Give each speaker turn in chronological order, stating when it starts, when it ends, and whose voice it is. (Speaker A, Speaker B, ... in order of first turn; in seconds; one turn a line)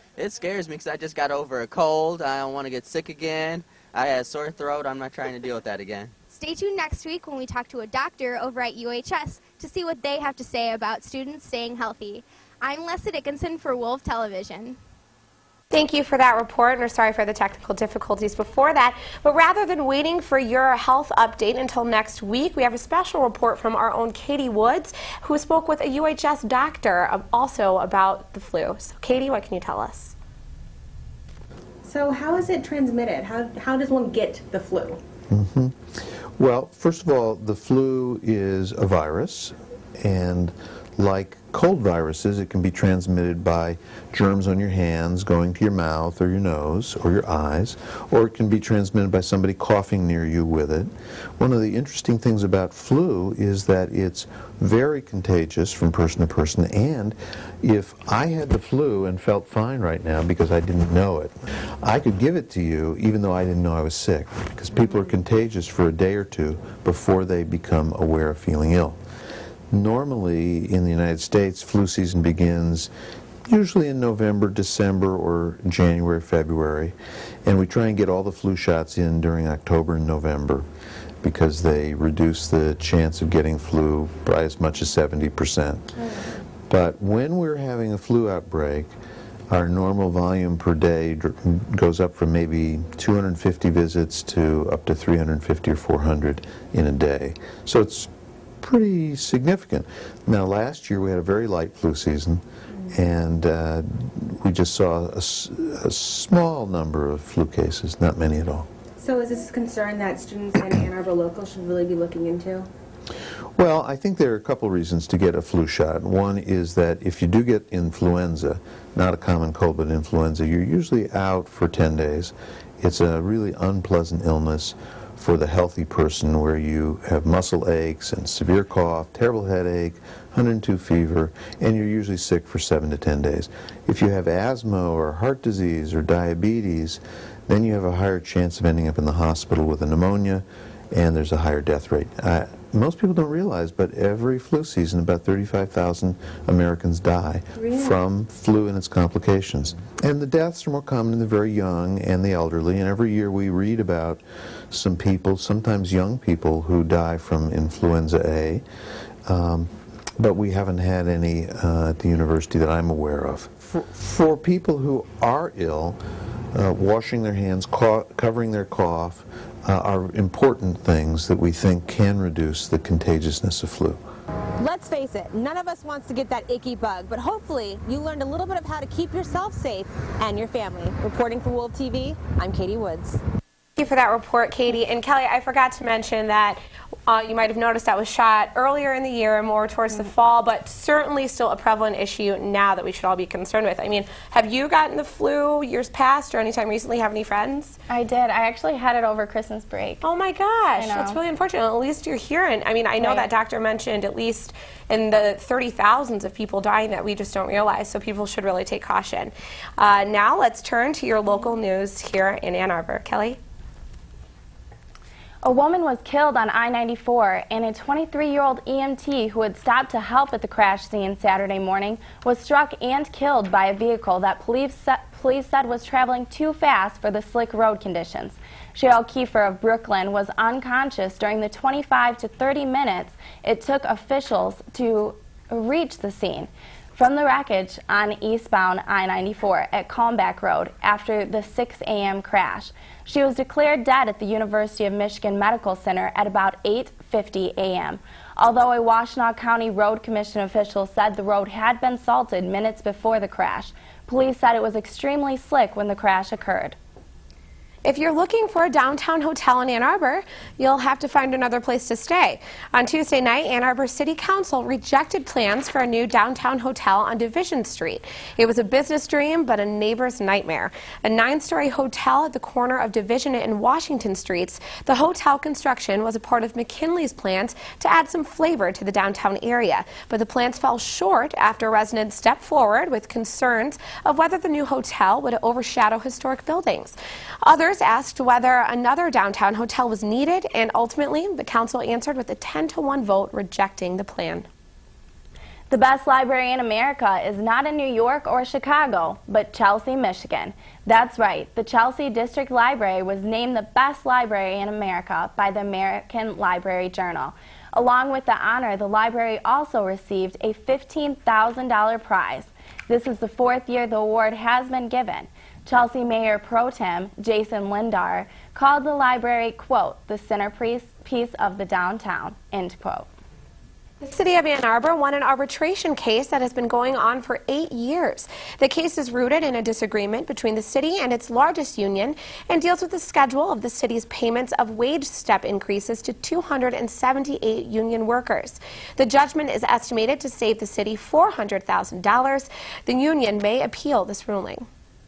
Speaker A: 0.2-6.1
Speaker B: 6.3-14.8
Speaker C: 15.7-30.1
Speaker D: 31.8-35.0
Speaker E: 35.3-69.0
Speaker E: 69.7-72.9
Speaker E: 73.5-80.7
Speaker E: 81.2-85.9
Speaker D: 86.0-86.4
Speaker E: 86.7-88.9
Speaker E: 89.5-98.1
Speaker E: 98.6-108.7
Speaker D: 102.7-103.0
Speaker D: 109.0-112.7
Speaker E: 113.6-158.6
Speaker D: 147.6-147.9
Speaker E: 159.3-166.0
Speaker E: 166.5-174.0
Speaker F: 174.6-183.2
Speaker C: 183.8-197.8
Speaker G: 197.9-200.0
Speaker C: 200.0-213.4
Speaker G: 200.8-201.2
Speaker G: 203.0-203.3
Speaker G: 215.4-256.8
Speaker C: 257.9-294.5
Speaker G: 295.7-323.1
Speaker C: 324.0-344.7